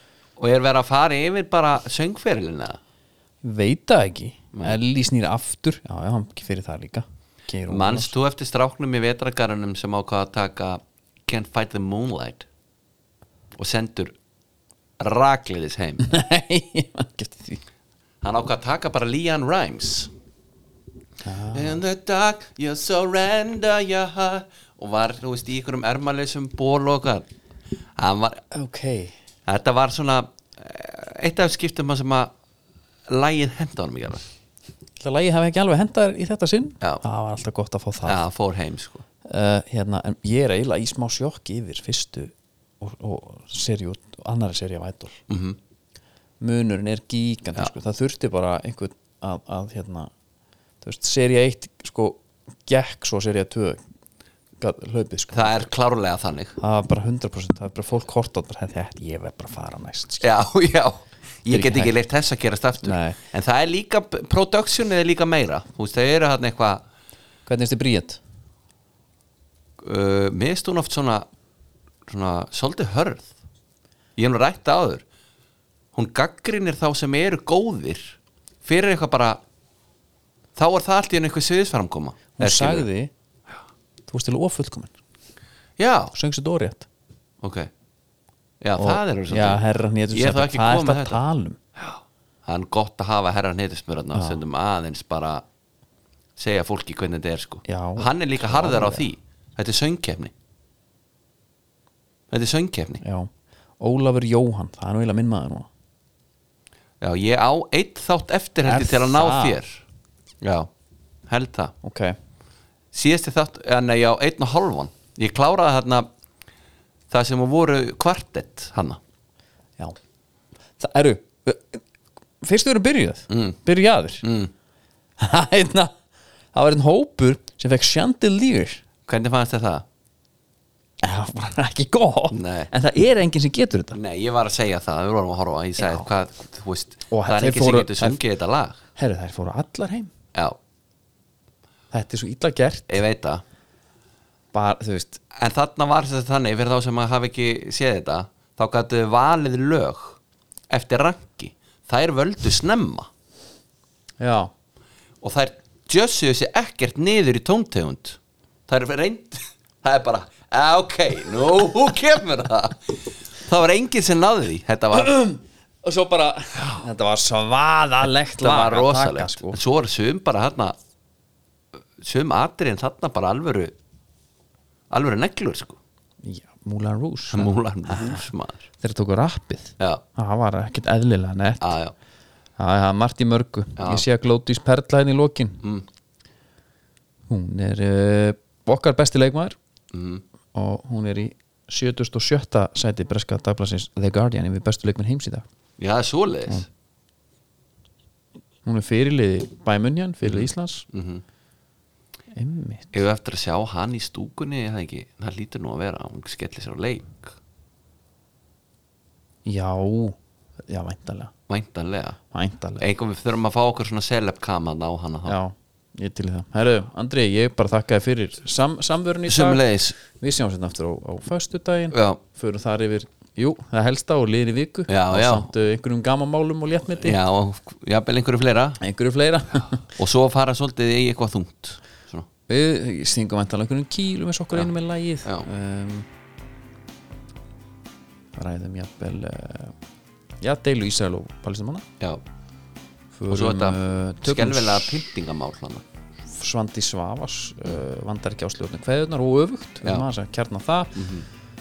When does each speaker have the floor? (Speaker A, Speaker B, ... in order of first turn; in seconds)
Speaker A: 0.4-2.8, 7.7-12.5, 13.6-14.2, 15.0-16.1, 18.2-20.1, 21.5-27.3, 28.0-28.4, 29.5-32.3, 33.1-34.3, 38.0-39.0, 45.3-45.6, 55.3-56.6, 60.2-66.8, 69.8-71.3, 72.1-73.4, 74.2-75.0, 75.9-79.4, 80.6-82.9, 85.8-86.1, 87.4-87.7, 88.6-91.2, 91.8-95.4, 96.4-100.3, 102.3-103.0, 107.0-109.8, 110.4-110.7, 111.3-111.7, 112.9-116.1, 117.1-119.0, 123.3-123.6, 124.2-124.5, 129.1-129.8, 132.3-132.7, 133.9-138.8, 142.9-143.4, 145.3-150.2, 150.7-153.1, 155.2-165.1, 168.4-170.8, 172.0-173.7, 174.9-175.8, 177.3-178.7, 181.6-181.9, 183.8-184.0, 189.9-190.2, 195.8-196.7, 200.2-201.2, 202.9-207.3, 211.5-212.2, 212.8-215.4, 219.3-220.0, 221.9-222.2, 224.9-225.5, 226.9-228.8, 229.9-232.3, 243.3-245.8, 250.9-251.3
Speaker B: 3.4-8.1, 16.0-17.6, 21.2-21.8, 28.5-29.1, 35.0-38.2, 39.2-45.2, 46.4-50.1, 50.8-53.8, 54.6-55.7, 56.6-60.3, 61.5-61.9, 62.8-63.2, 67.5-68.2, 82.4-83.1, 84.1-84.9, 86.1-86.9, 88.8-91.6, 94.1-94.4, 97.7-99.1, 103.0-105.7, 108.7-109.6, 111.8-112.2, 120.8-121.8, 122.4-124.2, 125.2-125.9, 126.5-128.8, 131.0-134.0, 135.8-136.1, 137.1-138.2, 139.0-140.1, 141.9-143.0, 144.5-145.2, 154.2-154.5, 164.9-169.6, 176.2-178.2, 178.8-181.8, 182.6-185.6, 187.3-189.6, 190.5-195.4, 198.7-200.9, 202.3-202.9, 209.4-211.3, 212.3-212.8, 215.3-227.2, 228.8-229.8, 232.5-236.1, 238.3-239.7, 240.4-241.9, 243.1-245.1, 246.3-251.0